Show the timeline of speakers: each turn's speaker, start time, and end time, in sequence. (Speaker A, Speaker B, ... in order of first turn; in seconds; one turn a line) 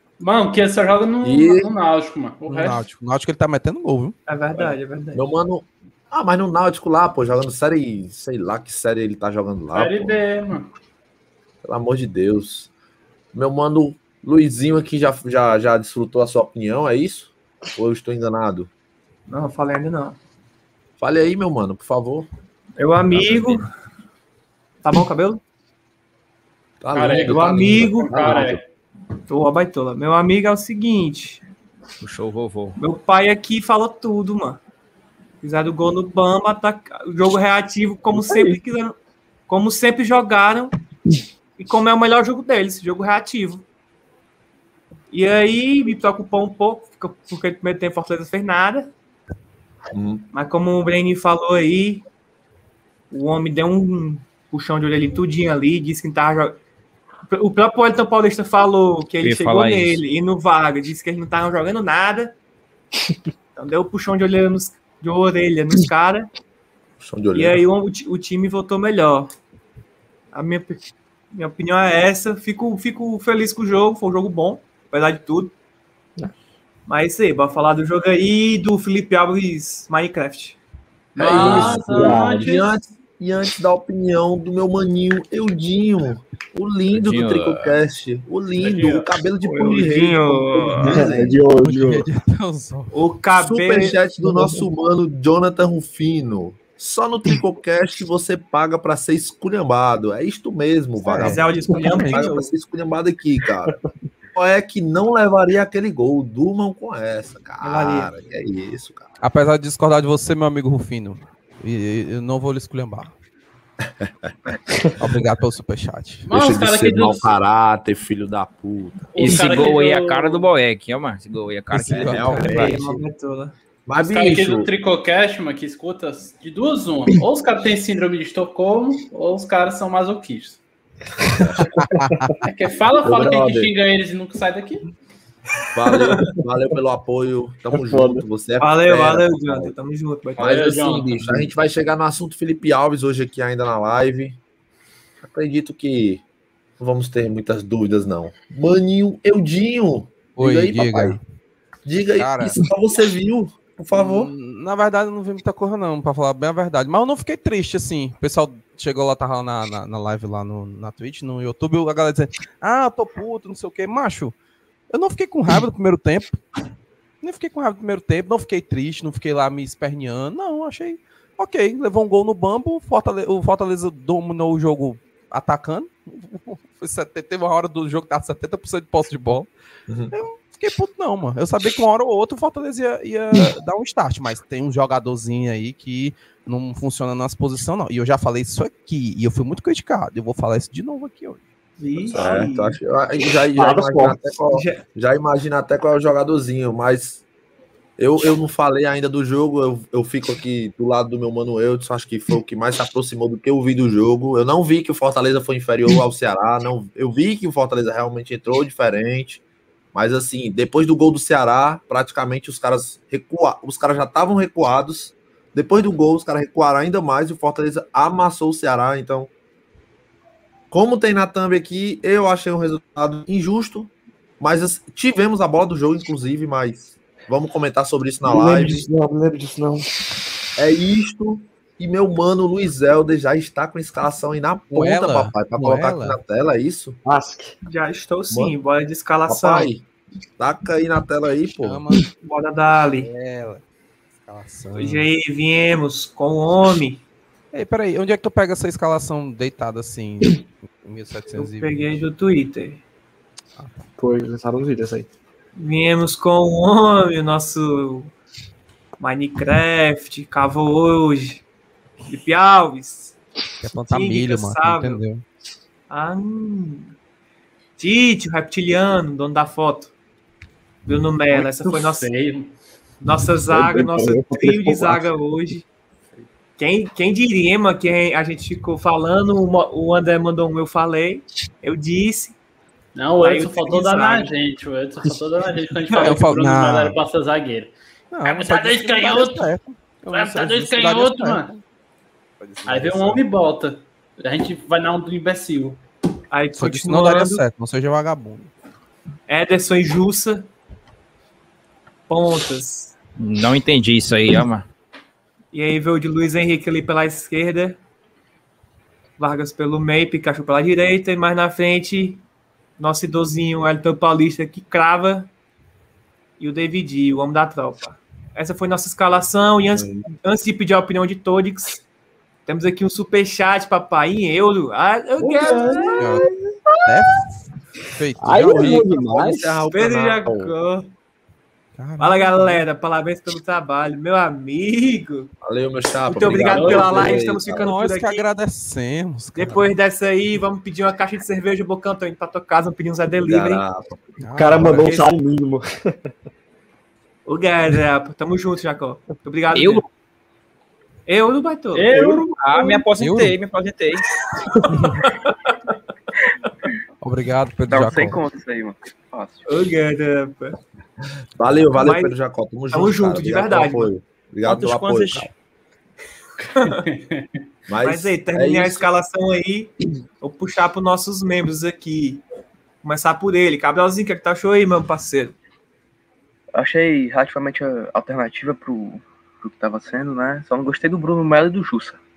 Speaker A: 0.2-2.8
Speaker B: 1.2-1.7
Speaker C: 2.5-4.2
Speaker D: 4.3-5.2
Speaker B: 4.5-10.2
Speaker A: 9.7-10.7
Speaker B: 11.6-12.7
Speaker B: 13.3-18.7
Speaker D: 19.3-20.2
Speaker B: 21.0-22.3
Speaker D: 22.8-23.6
Speaker E: 23.1-23.5
Speaker B: 23.2-23.5
Speaker D: 24.8-25.4
Speaker B: 26.8-28.6
Speaker A: 26.9-28.6
Speaker D: 27.2-28.4
Speaker D: 29.3-31.4
Speaker E: 32.0-32.8
Speaker D: 32.8-34.6
Speaker D: 35.4-39.0
Speaker F: 38.2-38.6
Speaker D: 39.5-40.7
Speaker D: 41.6-43.6
Speaker D: 45.1-48.9
Speaker B: 49.9-50.3
Speaker D: 50.3-52.0
Speaker D: 53.1-56.6
Speaker D: 57.3-62.4
Speaker E: 59.2-60.0
Speaker D: 63.6-66.3
Speaker B: 67.0-67.6
Speaker D: 67.3-69.3
Speaker D: 70.3-75.5
Speaker D: 76.9-80.6
Speaker A: 81.1-82.8
Speaker B: 81.2-91.4
Speaker F: 81.3-82.5
Speaker E: 86.9-87.8
Speaker D: 88.6-91.1
Speaker F: 90.8-92.1
Speaker C: 91.6-92.9
Speaker D: 92.9-94.0
Speaker B: 93.4-103.8
Speaker F: 94.2-94.6
Speaker D: 101.1-102.5
Speaker C: 101.2-102.3
Speaker B: 104.3-109.1
Speaker D: 107.6-108.1
Speaker C: 109.2-113.1
Speaker B: 114.0-114.3
Speaker C: 115.0-116.3
Speaker A: 116.3-117.3
Speaker B: 116.3-119.5
Speaker A: 119.1-120.5
Speaker E: 119.2-122.4
Speaker C: 121.7-122.7
Speaker B: 121.9-123.0
Speaker D: 122.4-123.5
Speaker B: 123.9-124.7
Speaker A: 124.0-130.6
Speaker C: 132.0-132.3
Speaker A: 132.4-134.8
Speaker B: 133.0-133.7
Speaker B: 135.7-139.7
Speaker D: 135.9-136.2
Speaker F: 137.7-138.2
Speaker D: 138.6-140.4
Speaker A: 140.4-141.4
Speaker B: 140.4-144.4
Speaker B: 145.2-146.2
Speaker B: 146.8-151.2
Speaker C: 150.3-151.2
Speaker B: 151.8-154.3
Speaker C: 152.2-152.6
Speaker C: 153.9-164.3
Speaker C: 164.9-166.4
Speaker C: 167.2-179.5
Speaker B: 179.9-180.1
Speaker C: 180.1-191.4
Speaker D: 191.8-192.8
Speaker B: 192.1-197.2
Speaker F: 193.6-194.2
Speaker D: 194.5-194.8
Speaker B: 198.0-209.4
Speaker B: 209.9-219.3
Speaker B: 220.7-228.9
Speaker F: 228.2-229.9
Speaker B: 230.6-237.0
Speaker C: 234.7-236.2
Speaker F: 237.1-237.6
Speaker D: 237.6-239.7
Speaker B: 238.3-238.6
Speaker B: 239.3-239.8
Speaker B: 240.4-241.8
Speaker C: 241.6-242.0
Speaker D: 242.2-243.1
Speaker C: 243.0-243.6
Speaker C: 244.2-245.1
Speaker D: 244.8-247.0
Speaker C: 247.5-252.1
Speaker D: 251.4-252.8
Speaker C: 253.6-253.9
Speaker F: 254.0-255.1
Speaker D: 255.6-258.1
Speaker D: 259.0-261.4
Speaker D: 262.1-263.2
Speaker C: 263.6-265.2
Speaker D: 263.9-265.0
Speaker D: 265.9-266.9
Speaker D: 267.8-269.9
Speaker D: 270.9-272.1
Speaker A: 271.7-272.5
Speaker D: 273.0-275.6
Speaker F: 273.5-275.1
Speaker D: 276.6-282.4
Speaker A: 282.9-287.7
Speaker D: 283.2-284.3
Speaker D: 285.9-286.2
Speaker C: 286.0-287.0
Speaker C: 288.1-291.6
Speaker A: 288.3-289.5
Speaker A: 290.1-291.5
Speaker C: 292.4-293.2
Speaker A: 292.6-295.8
Speaker D: 296.3-297.4
Speaker C: 296.6-298.5
Speaker D: 299.3-300.5
Speaker D: 302.1-302.9
Speaker E: 303.2-304.6
Speaker D: 305.5-307.8
Speaker D: 309.2-312.2
Speaker D: 312.8-315.3
Speaker D: 316.4-321.8
Speaker D: 322.4-326.2
Speaker F: 325.2-327.1
Speaker B: 325.5-325.9
Speaker C: 326.0-326.2
Speaker C: 326.9-328.9
Speaker F: 328.2-329.6
Speaker B: 328.4-330.5
Speaker D: 329.7-330.9
Speaker C: 331.8-332.6
Speaker D: 332.0-335.3
Speaker B: 335.4-337.7
Speaker D: 336.1-338.2
Speaker A: 336.4-337.1
Speaker C: 337.6-339.7
Speaker D: 339.4-343.6
Speaker B: 343.2-344.0
Speaker C: 344.2-344.9
Speaker F: 344.4-345.9
Speaker D: 344.7-345.1
Speaker D: 347.3-349.9
Speaker E: 349.5-349.9
Speaker D: 351.1-352.9
Speaker A: 351.8-352.3
Speaker E: 352.4-354.1
Speaker C: 353.0-353.4
Speaker D: 354.5-355.5
Speaker C: 354.7-355.0
Speaker C: 357.0-358.2
Speaker G: 357.7-359.5
Speaker D: 359.4-360.6
Speaker B: 361.4-365.3
Speaker D: 361.8-362.1
Speaker D: 362.7-363.9
Speaker E: 364.4-365.3
Speaker D: 366.6-366.8
Speaker A: 366.9-367.3
Speaker B: 367.7-368.9
Speaker D: 367.8-372.2
Speaker D: 372.8-375.4
Speaker G: 376.5-382.0